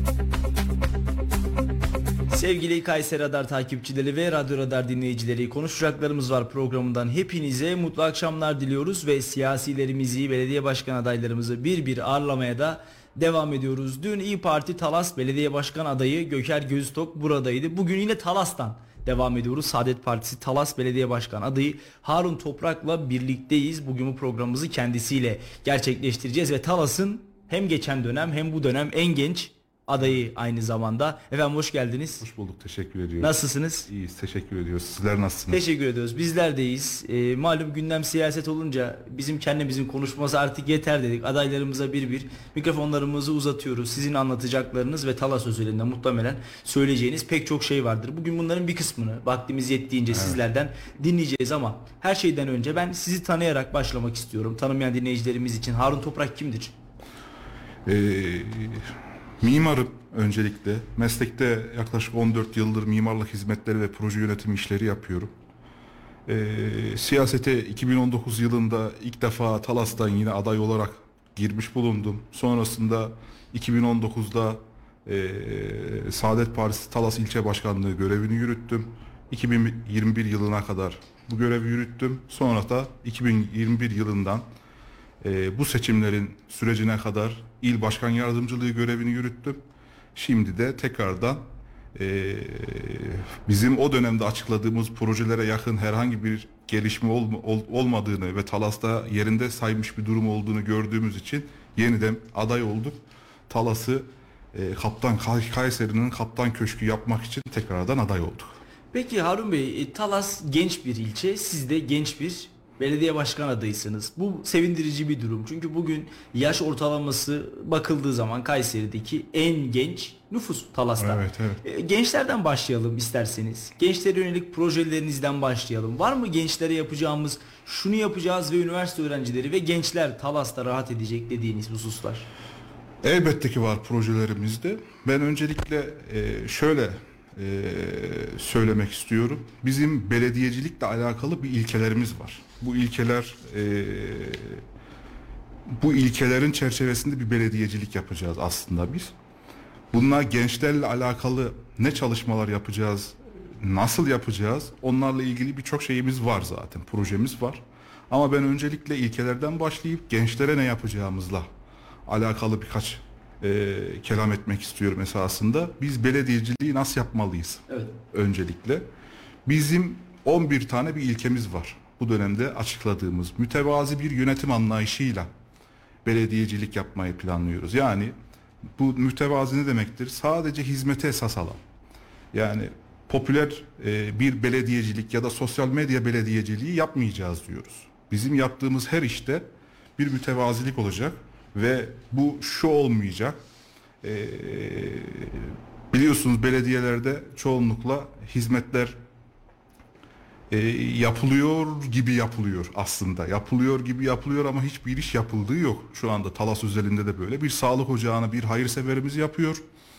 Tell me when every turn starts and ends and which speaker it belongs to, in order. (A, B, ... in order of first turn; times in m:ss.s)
0:02.3-0:32.2 A
0:32.2-0:33.4 B
0:33.2-0:33.9 A
0:33.9-0:35.6 B
0:35.5-0:56.8 A
0:50.1-0:50.4 B
0:57.8-1:05.3 B
1:06.2-1:24.4 B
1:25.2-1:29.6 B
1:30.1-1:48.6 B
1:48.9-2:12.3 A
2:01.0-2:01.6 B
2:13.0-2:24.6 B
2:25.8-2:29.1 B
2:29.9-2:41.5 B
2:42.1-2:48.8 B
2:47.7-2:47.9 A
2:49.4-2:55.3 B
2:56.0-2:58.1 B
2:58.8-3:01.6 B
3:02.3-3:13.4 B
3:14.0-3:19.0 B
3:20.5-3:29.6 B